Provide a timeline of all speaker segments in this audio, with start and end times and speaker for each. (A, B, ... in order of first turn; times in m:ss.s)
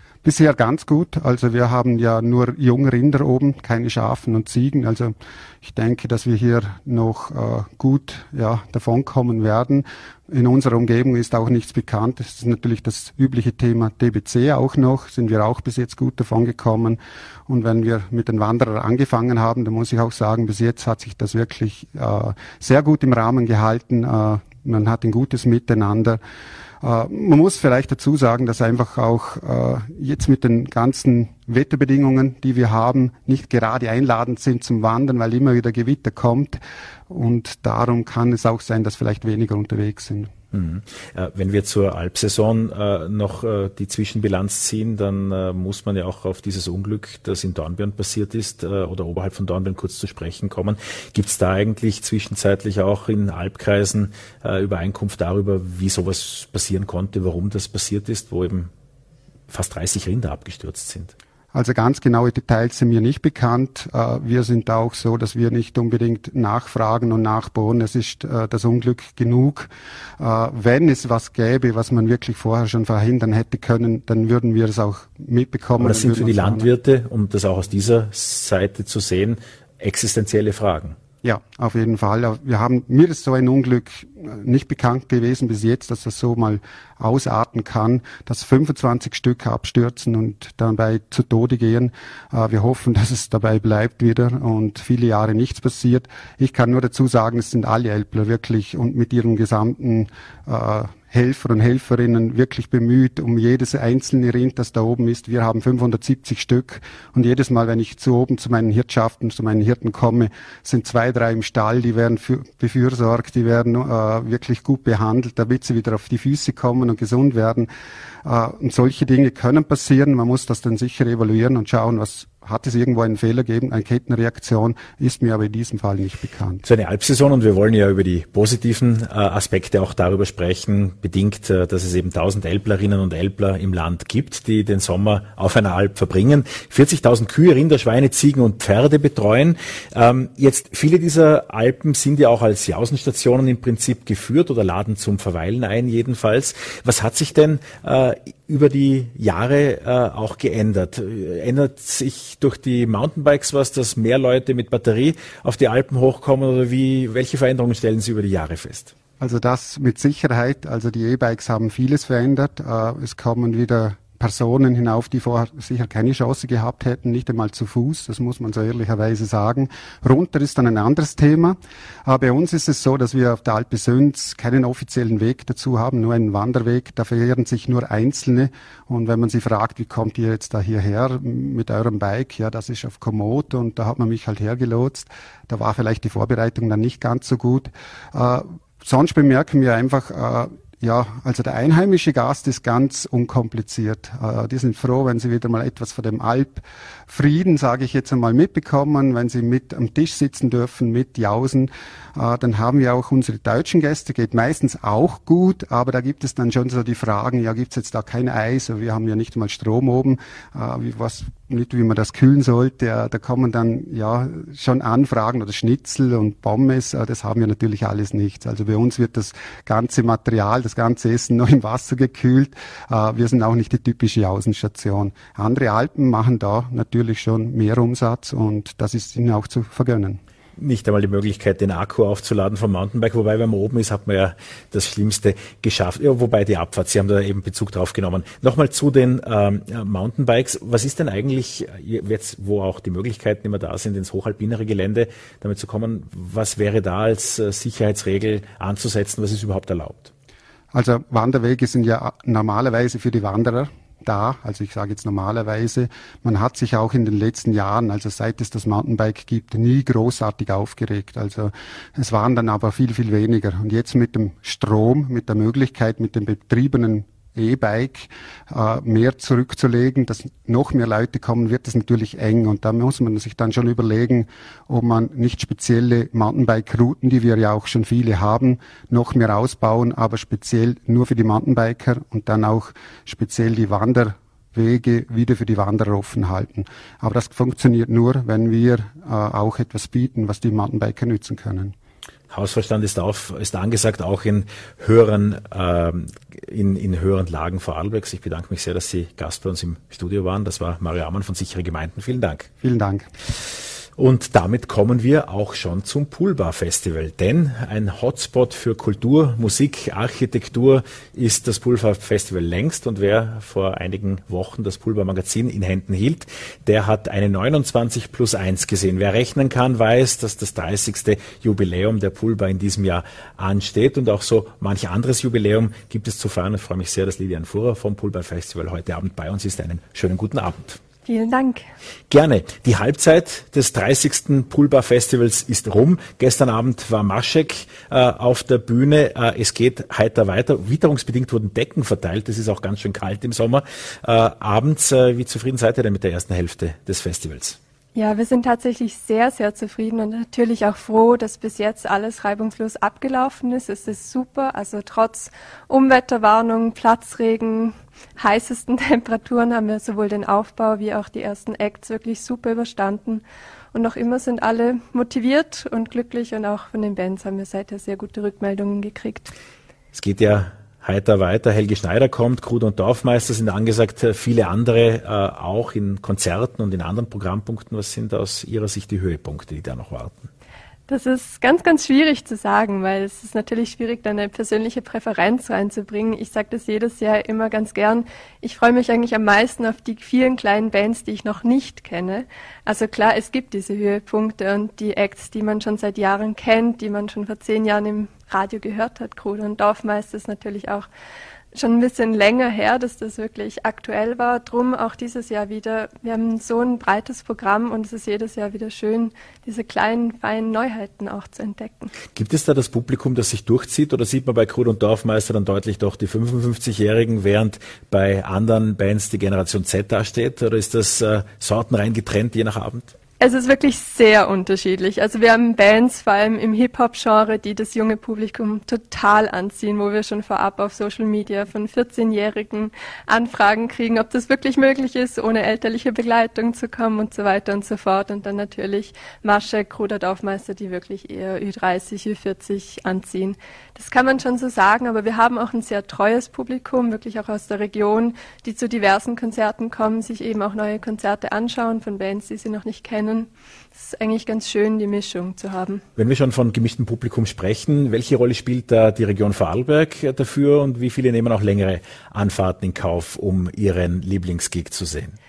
0:00.2-0:26.2 A
0:26.8-0:40.3 A
0:40.5-0:58.7 B
0:59.5-1:01.1 B
1:01.5-1:16.7 A
1:15.8-1:21.0 B
1:21.2-1:57.7 A
1:58.2-2:06.6 A
2:06.6-2:38.9 B
2:39.2-3:50.2 A
3:50.6-4:10.1 B
4:10.7-4:51.7 A
4:52.3-5:02.5 B
5:02.6-5:03.1 A
5:04.0-5:30.8 B
5:31.0-5:31.6 C
5:32.1-5:47.6 B
5:47.9-6:09.3 C
6:09.9-6:20.3 B
6:20.9-6:40.9 C
6:41.5-6:51.9 C
6:52.1-7:02.9 B
7:03.2-7:35.8 C
7:36.0-7:45.1 B